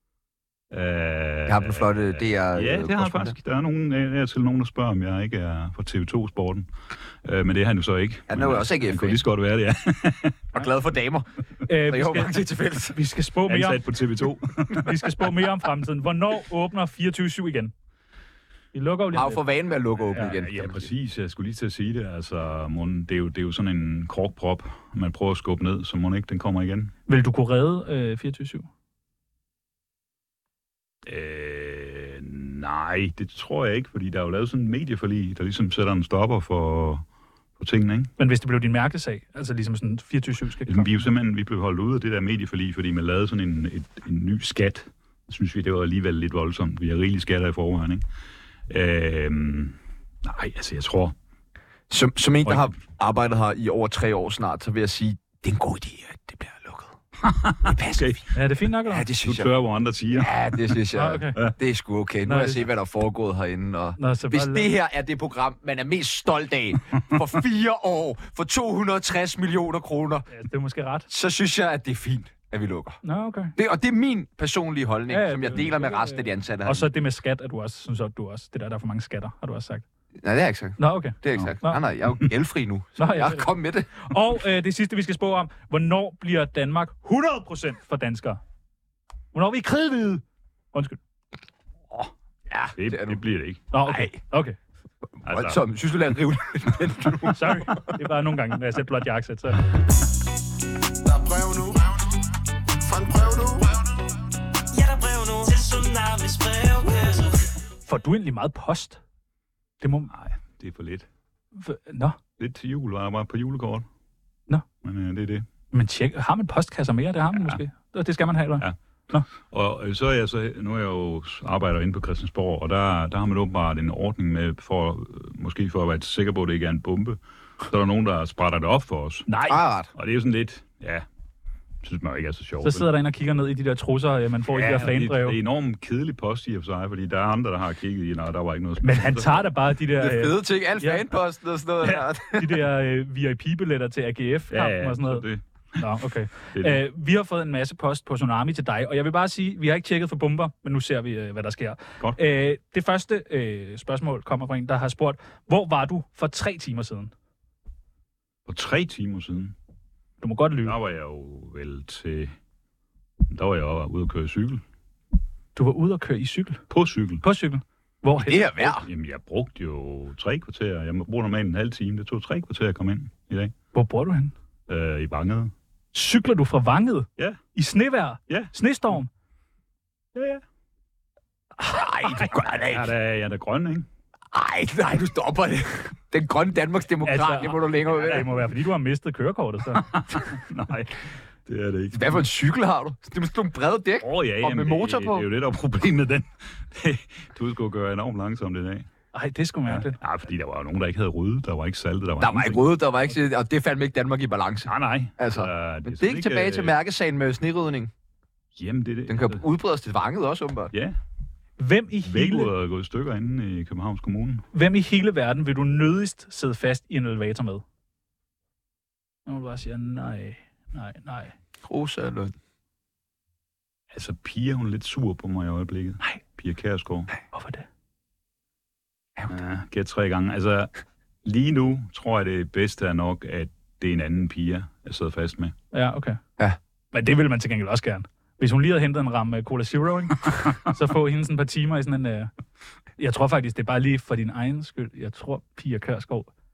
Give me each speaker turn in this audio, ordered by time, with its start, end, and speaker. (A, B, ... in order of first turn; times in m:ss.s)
0:00.7-0:06.7 A
0:01.5-0:03.4 B
0:07.2-0:10.4 A
0:08.3-0:09.2 B
0:10.5-0:13.0 B
0:11.7-0:13.8 C
0:13.5-0:15.0 A
0:14.7-0:17.7 C
0:18.7-0:19.4 C
0:19.1-0:20.9 B
0:20.1-0:26.9 A
0:27.1-0:28.7 C
0:31.1-0:37.0 A
0:37.6-0:38.1 A
0:38.2-0:41.0 C
0:40.7-0:48.0 A
0:48.7-0:51.1 A
0:51.9-0:57.0 B
0:52.4-0:52.7 A
0:57.2-0:58.2 A
0:57.6-0:58.2 B
0:58.3-0:59.1 C
0:58.8-0:59.5 B
0:59.2-1:00.8 A
1:00.1-1:10.3 B
1:00.9-1:01.4 C
1:02.3-1:02.7 C
1:04.0-1:04.7 C
1:10.3-1:11.1 C
1:11.1-1:13.0 B
1:13.0-1:13.6 C
1:13.6-1:16.9 B
1:15.1-1:19.8 C
1:20.2-1:23.9 B
1:20.8-1:21.8 C
1:23.0-1:28.4 C
1:29.3-1:31.0 C
1:32.5-1:33.2 B
1:32.8-1:33.6 A
1:33.7-1:34.6 C
1:35.2-1:37.9 B
1:35.2-1:35.6 A
1:37.3-1:39.6 C
1:41.0-1:42.0 D
1:42.8-1:43.8 D
1:44.7-1:47.5 E
1:47.9-1:49.0 C
1:49.8-1:50.1 C
1:50.1-1:51.1 A
1:51.6-1:52.2 C
1:52.4-1:53.9 A
1:54.8-1:55.5 A
1:55.7-1:59.3 C
1:59.3-2:09.3 A
2:09.3-2:09.6 C
2:09.5-2:09.9 B
2:10.0-2:11.0 A
2:11.8-2:12.9 A
2:12.6-2:15.4 C
2:14.5-2:19.5 A
2:18.8-2:21.0 C
2:20.0-2:22.6 B
2:22.3-2:25.2 C
2:24.5-2:25.8 A
2:25.8-2:37.1 C
2:26.6-2:26.8 A
2:38.5-2:39.5 A
2:40.2-2:40.8 C
2:40.6-2:42.3 A
2:43.3-2:44.6 A
2:45.6-2:46.6 C
2:46.7-2:47.2 A
2:47.2-2:48.7 C
2:48.2-2:48.9 B
2:48.8-2:53.5 A
2:53.7-2:54.3 C
2:54.7-2:55.5 A
2:55.9-2:59.1 C
3:00.2-3:00.4 A
3:01.6-3:02.9 B
3:02.7-3:03.9 A
3:04.3-3:08.4 B
3:07.0-3:09.9 C
3:09.7-3:12.2 A
3:11.9-3:15.3 B
3:14.0-3:18.9 A
3:19.1-3:20.0 C
3:19.7-3:22.7 A
3:22.2-3:27.9 B
3:24.7-3:26.8 A
3:28.6-3:29.4 A
3:29.1-3:30.7 B
3:31.6-3:32.5 C
3:32.0-3:34.5 A
3:34.5-3:37.6 C
3:39.3-3:41.3 C
3:41.7-3:42.3 B
3:43.9-3:47.1 A
3:47.3-3:47.7 C
3:49.3-3:50.7 A
3:51.2-3:55.5 A
3:55.7-3:56.2 C
3:56.9-4:02.3 C
4:03.0-4:06.3 C